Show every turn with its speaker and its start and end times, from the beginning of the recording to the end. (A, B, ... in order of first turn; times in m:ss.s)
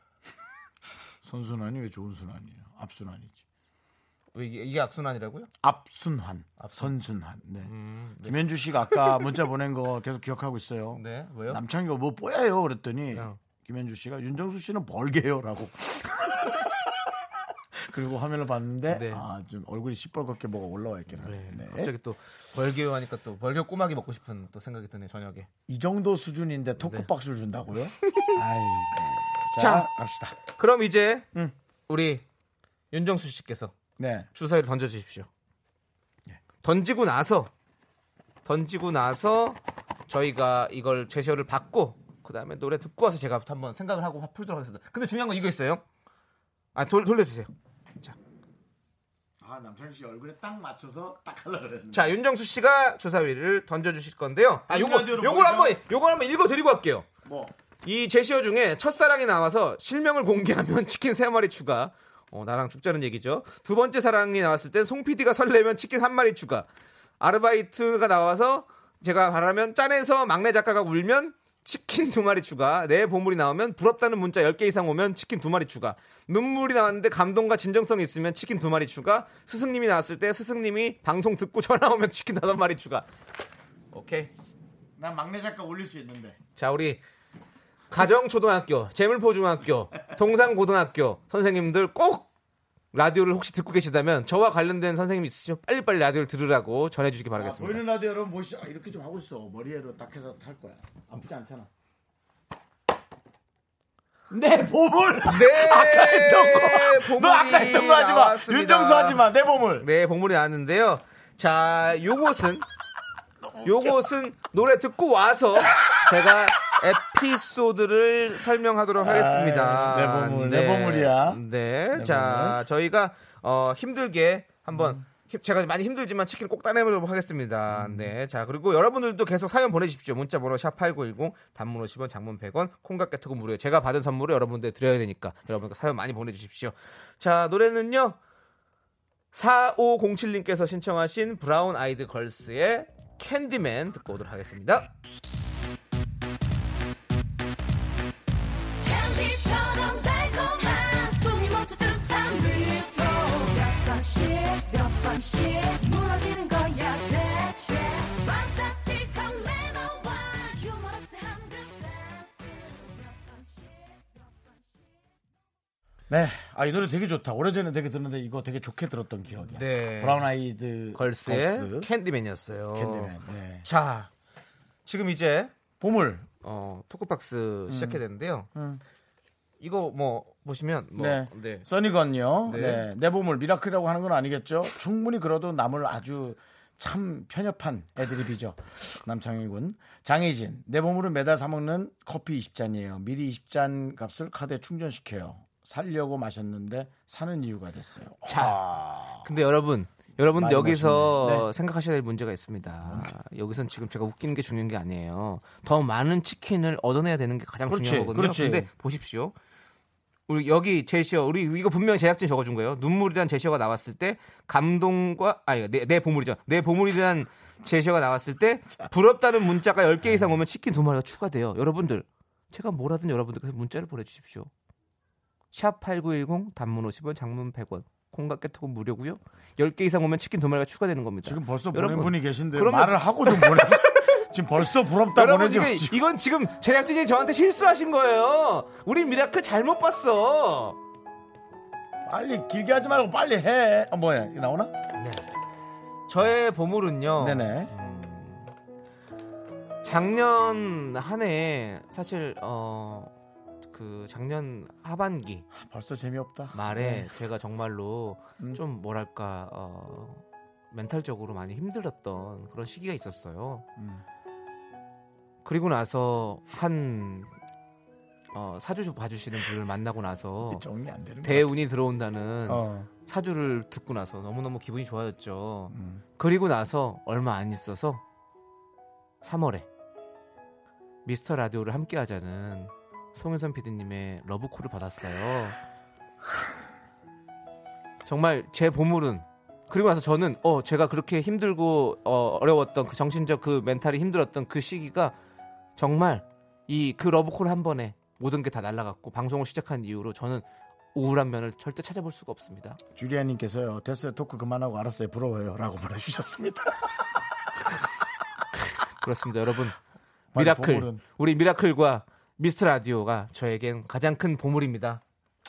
0:01.2-0:03.4 A
0:04.3-0:05.5 B
0:05.6-0:07.7 A
0:06.6-0:06.9 B
0:07.6-0:09.3 B
0:08.2-0:17.1 A
0:10.9-0:11.6 B
0:17.8-0:21.9 A
0:18.9-0:19.2 B
0:21.2-0:25.5 B
0:25.7-0:30.4 A
0:26.8-0:27.1 B
0:29.6-0:29.9 B
0:30.5-0:31.3 B
0:31.9-0:32.2 B
0:32.9-0:33.7 B
0:34.0-0:34.3 A
0:34.3-0:35.3 B
0:36.6-0:37.5 B
0:38.4-0:45.8 B
0:46.7-0:47.5 B
0:49.4-0:52.1 A
0:51.9-0:57.1 B
0:54.7-0:55.8 A
0:57.2-0:57.5 A
0:57.8-1:06.7 B
1:07.2-1:23.1 B
1:23.9-1:24.3 B
1:25.0-1:26.4 A
1:26.6-1:27.0 B
1:27.9-1:32.3 B
1:32.9-1:37.8 B
1:37.4-1:41.7 A
1:44.3-1:49.9 A
1:45.2-1:49.2 B
1:49.8-1:52.6 B
1:53.4-1:54.0 A
1:53.6-2:18.2 B
1:55.6-1:56.2 A
1:59.0-2:01.4 A
2:01.9-2:02.6 A
2:04.7-2:05.0 A
2:07.7-2:08.1 A
2:19.3-2:24.9 B
2:28.8-2:44.2 C
2:46.1-2:51.9 A
2:49.5-2:50.2 B
2:50.9-2:54.1 B
2:52.7-2:53.6 A
2:54.8-2:55.5 B
2:55.8-2:56.3 A
2:56.4-2:58.5 B
2:57.7-2:58.0 A
2:58.5-2:58.8 A
2:59.6-3:01.6 B
3:01.0-3:19.3 A
3:02.4-3:02.8 B
3:18.2-3:18.6 B
3:19.2-3:29.3 B
3:20.3-3:21.5 A
3:22.8-3:23.1 A
3:27.7-3:28.7 A
3:30.3-3:44.5 B
3:40.0-3:40.3 A
3:45.5-3:54.2 B
3:51.2-3:56.0 A
3:55.1-4:00.8 B
4:02.0-4:04.7 A
4:05.0-4:05.2 B
4:06.1-4:08.5 B
4:07.2-4:07.7 A
4:09.8-4:13.1 B
4:13.7-4:15.5 B
4:15.5-4:17.1 A
4:16.5-4:23.6 B
4:23.8-4:24.0 A
4:25.4-4:27.3 B
4:28.3-4:30.6 B
4:30.4-4:31.5 A
4:31.2-4:38.0 B
4:32.5-4:32.9 A
4:35.7-4:36.0 A
4:39.2-4:39.6 B
4:41.0-4:45.6 B
4:48.0-4:55.1 B
4:55.8-5:02.8 B
5:02.9-5:06.9 A
5:09.0-5:09.8 B
5:10.3-5:11.0 A
5:10.3-5:15.0 B